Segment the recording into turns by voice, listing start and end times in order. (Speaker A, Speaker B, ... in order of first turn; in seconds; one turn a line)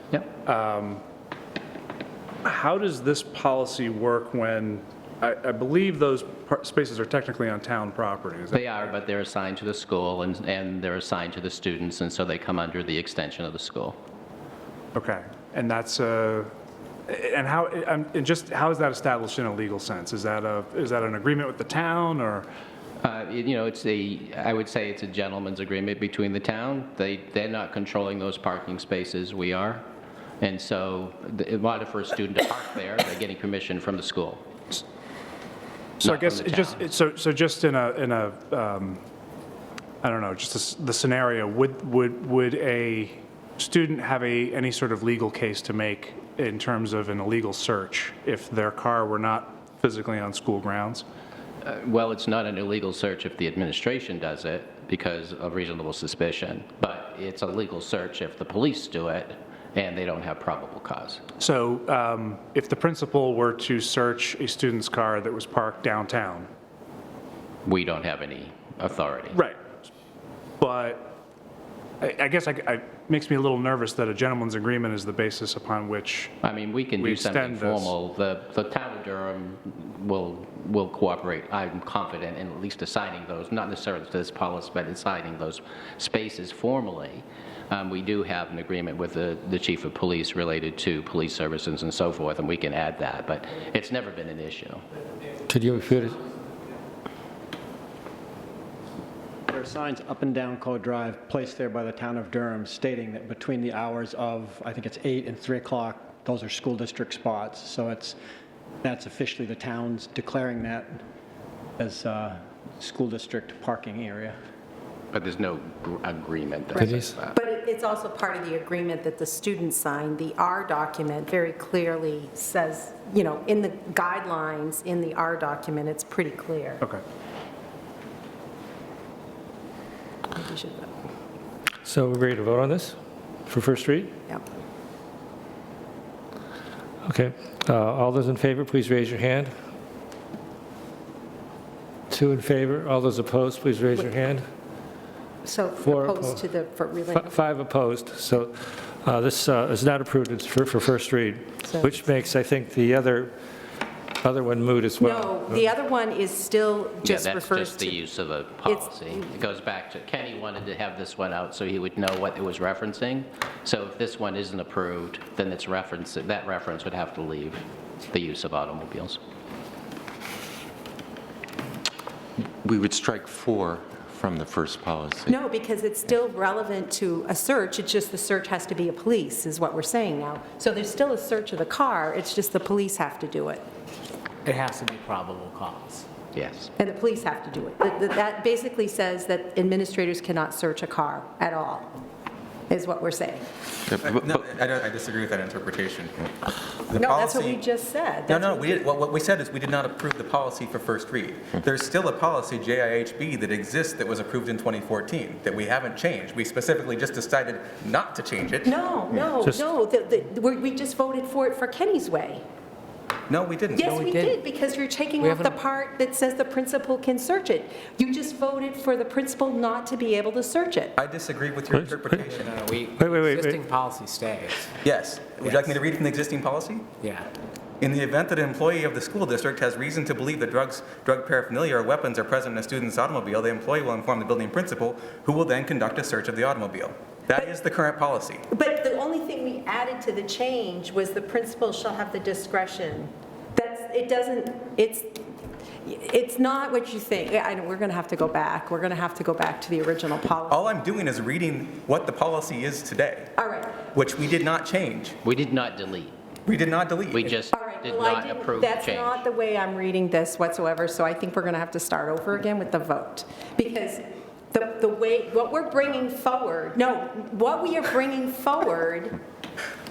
Speaker A: 0.4-1.0
Speaker A: 2.4-8.8
Speaker B: 8.5-14.0
Speaker A: 14.9-16.5
Speaker A: 17.1-22.5
Speaker B: 23.0-29.8
Speaker B: 30.4-34.4
Speaker B: 36.0-36.8
Speaker A: 36.0-39.0
Speaker A: 40.0-51.0
Speaker B: 51.6-61.2
Speaker A: 61.4-66.5
Speaker B: 67.7-69.4
Speaker A: 69.3-69.6
Speaker A: 70.6-71.2
Speaker A: 72.0-76.3
Speaker B: 76.4-94.8
Speaker A: 77.0-77.9
Speaker C: 95.5-96.2
Speaker D: 99.5-108.2
Speaker D: 108.8-111.0
Speaker D: 111.8-114.4
Speaker B: 115.1-117.3
Speaker C: 116.8-117.1
Speaker E: 117.3-126.8
Speaker E: 130.3-130.9
Speaker C: 131.8-133.0
Speaker C: 133.5-134.1
Speaker C: 137.1-139.5
Speaker C: 142.1-144.4
Speaker E: 145.4-147.3
Speaker C: 145.8-146.4
Speaker C: 147.1-153.3
Speaker E: 151.6-151.9
Speaker C: 154.2-155.6
Speaker E: 155.0-158.0
Speaker B: 157.0-169.2
Speaker E: 158.7-159.2
Speaker F: 172.6-175.4
Speaker E: 175.3-183.6
Speaker G: 184.4-186.1
Speaker B: 186.3-186.7
Speaker E: 186.8-192.0
Speaker E: 192.7-193.4
Speaker H: 194.0-196.3
Speaker H: 196.9-197.6
Speaker E: 196.9-198.8
Speaker H: 198.3-208.8
Speaker E: 208.7-212.4
Speaker H: 213.3-214.0
Speaker E: 213.8-221.0
Speaker G: 213.9-214.4
Speaker G: 215.2-215.6
Speaker H: 221.0-222.6
Speaker C: 221.7-222.2
Speaker G: 222.3-224.8
Speaker C: 223.0-223.6
Speaker H: 224.8-226.9
Speaker G: 225.4-225.8
Speaker G: 227.0-227.3
Speaker H: 227.8-238.4
Speaker E: 238.5-245.2
Speaker E: 245.8-250.7
Speaker H: 250.5-253.3
Speaker E: 253.3-253.8
Speaker H: 253.9-255.2
Speaker B: 255.2-256.1
Speaker H: 256.4-257.4
Speaker B: 257.1-259.2
Speaker E: 257.5-269.2